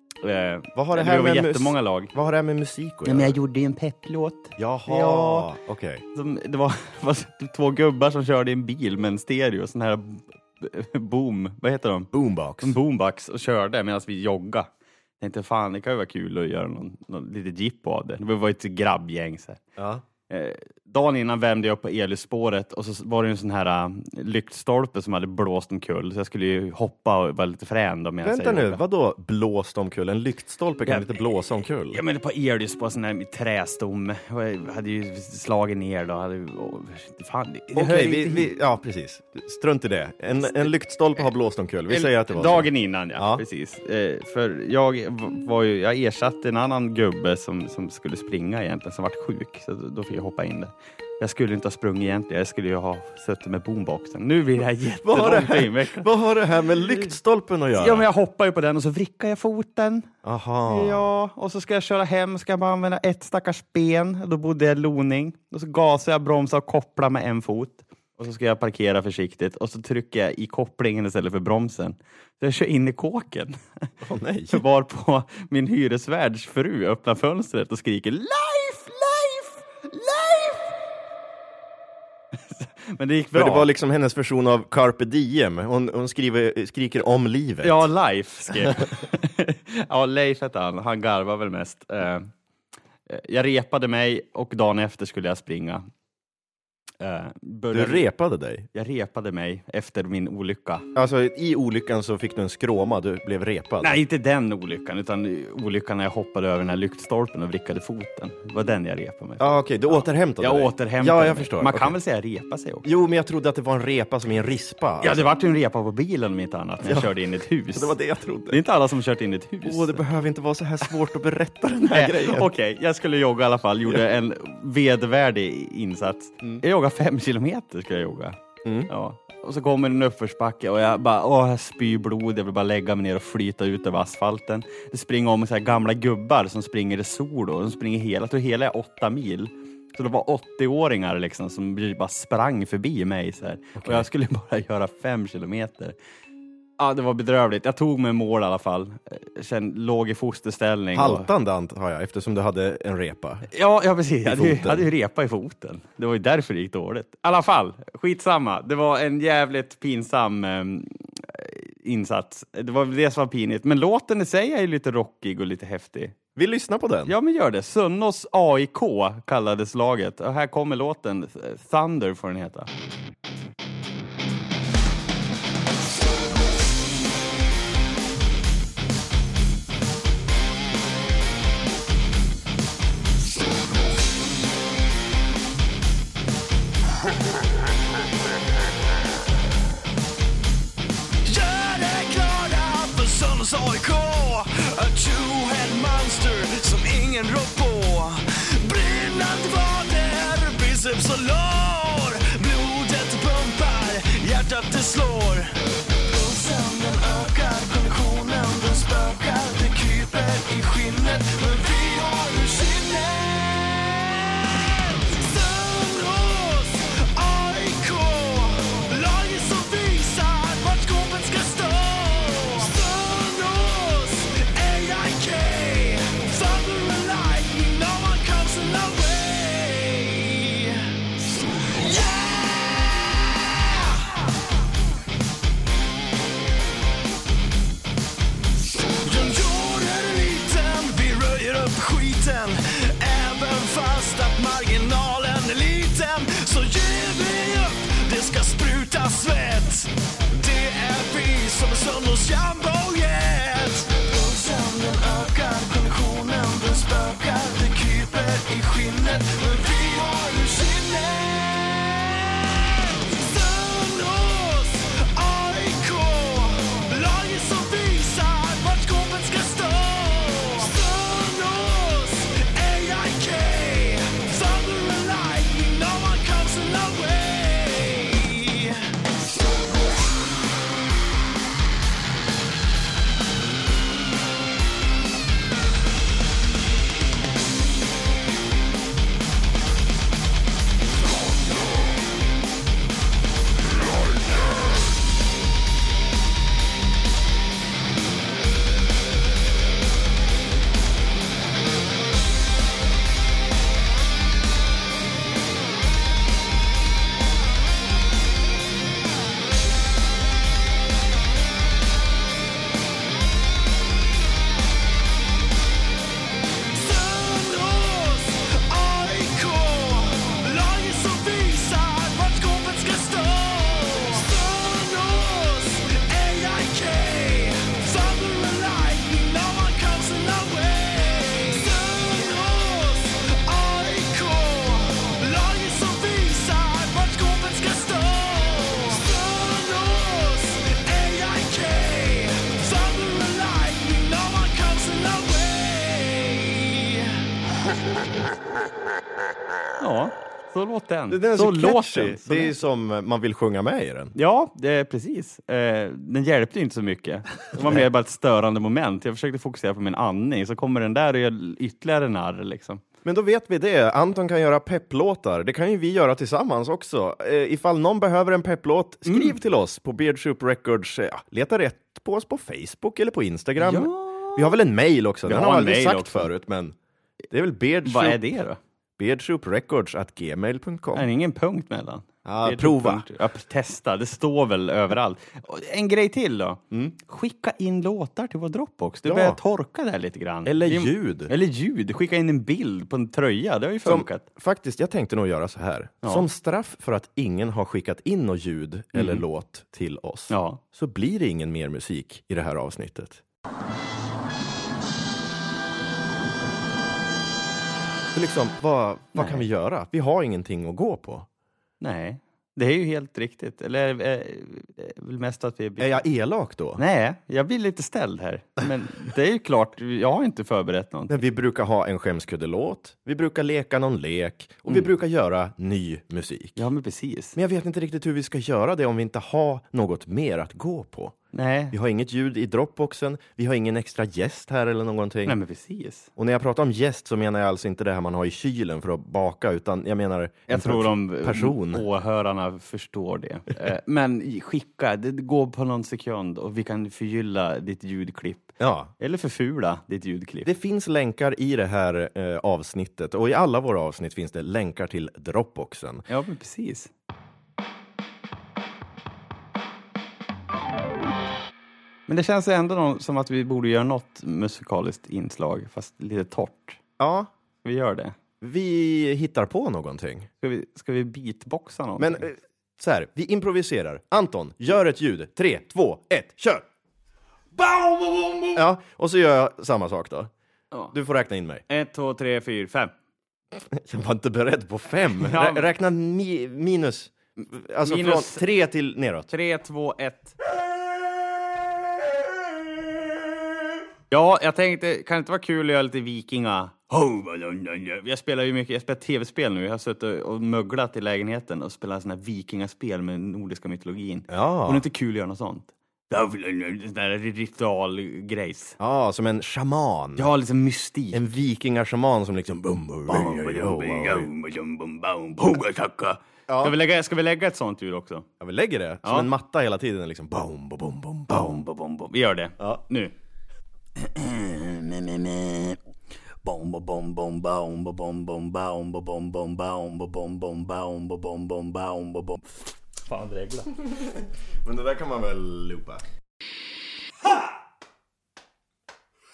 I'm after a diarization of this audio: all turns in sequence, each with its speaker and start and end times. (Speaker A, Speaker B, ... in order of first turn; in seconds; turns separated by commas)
Speaker A: 0.2-2.1, Speaker B: 0.8-3.4, Speaker A: 3.1-5.5, Speaker B: 4.6-6.0, Speaker A: 6.2-12.1, Speaker B: 12.1-12.8, Speaker A: 12.6-14.7, Speaker A: 15.2-19.6, Speaker B: 19.8-20.0, Speaker A: 20.3-28.8, Speaker B: 28.2-32.0, Speaker A: 30.9-31.2, Speaker A: 31.9-38.5, Speaker B: 37.7-43.4, Speaker A: 40.4-40.7, Speaker A: 41.9-56.1, Speaker B: 55.0-58.0, Speaker A: 57.8-60.1, Speaker B: 60.2-61.1, Speaker A: 60.7-73.6, Speaker B: 74.0-74.6, Speaker A: 74.5-80.7, Speaker A: 82.5-83.7, Speaker B: 83.3-87.8, Speaker A: 87.6-92.3, Speaker A: 93.1-95.9, Speaker A: 97.0-98.1, Speaker B: 97.7-98.7, Speaker A: 98.7-100.9, Speaker B: 101.0-104.0, Speaker A: 103.8-112.8, Speaker B: 109.4-112.0, Speaker B: 112.8-115.2, Speaker A: 115.0-118.0, Speaker B: 116.8-117.1, Speaker B: 117.7-118.6, Speaker A: 118.5-120.1, Speaker B: 119.6-122.5, Speaker A: 121.9-145.9, Speaker B: 128.6-128.9, Speaker B: 143.8-144.1, Speaker A: 146.8-151.3, Speaker B: 150.9-153.5, Speaker A: 153.5-166.2, Speaker B: 154.2-154.9, Speaker B: 166.4-167.2, Speaker A: 167.1-172.7, Speaker C: 191.2-230.9, Speaker C: 231.6-234.1, Speaker C: 238.9-278.8, Speaker C: 316.7-347.1, Speaker A: 349.8-352.6, Speaker B: 351.1-354.1, Speaker A: 354.2-362.8, Speaker B: 363.1-376.8, Speaker A: 369.1-369.4, Speaker A: 373.6-374.5, Speaker A: 375.2-376.3, Speaker B: 377.3-378.2, Speaker A: 377.9-378.6, Speaker B: 379.0-381.1, Speaker A: 380.9-394.2, Speaker B: 382.2-383.1, Speaker B: 389.1-389.4, Speaker B: 390.4-391.3, Speaker B: 393.8-403.2, Speaker A: 398.9-399.2, Speaker A: 400.3-400.6, Speaker B: 408.1-411.3, Speaker A: 409.1-409.4, Speaker A: 411.8-416.0, Speaker B: 415.8-416.8, Speaker A: 416.8-421.2, Speaker B: 421.1-426.6, Speaker A: 426.6-427.4, Speaker B: 427.4-431.2, Speaker A: 431.3-431.8, Speaker B: 431.7-435.4, Speaker A: 435.3-436.1, Speaker B: 436.2-441.9, Speaker A: 440.5-450.5, Speaker B: 448.6-448.9, Speaker B: 450.4-456.1, Speaker A: 456.1-456.9, Speaker A: 462.1-466.8, Speaker B: 467.0-467.3, Speaker A: 467.6-468.1, Speaker B: 468.4-470.3, Speaker A: 470.4-472.3, Speaker B: 472.0-476.6, Speaker A: 477.7-478.5, Speaker B: 478.5-480.3, Speaker B: 480.9-481.6, Speaker A: 481.7-482.9, Speaker B: 483.7-489.3, Speaker A: 485.2-485.7, Speaker A: 487.9-488.4, Speaker A: 489.3-490.4, Speaker A: 494.1-508.8, Speaker B: 504.3-504.8, Speaker B: 508.8-510.3, Speaker A: 510.2-511.2, Speaker B: 511.1-514.3, Speaker A: 513.1-518.3, Speaker B: 516.5-516.8, Speaker B: 518.4-521.6, Speaker A: 519.0-519.3, Speaker A: 521.3-523.1, Speaker A: 524.0-525.8, Speaker A: 526.4-532.4, Speaker A: 533.1-533.7, Speaker B: 534.6-536.0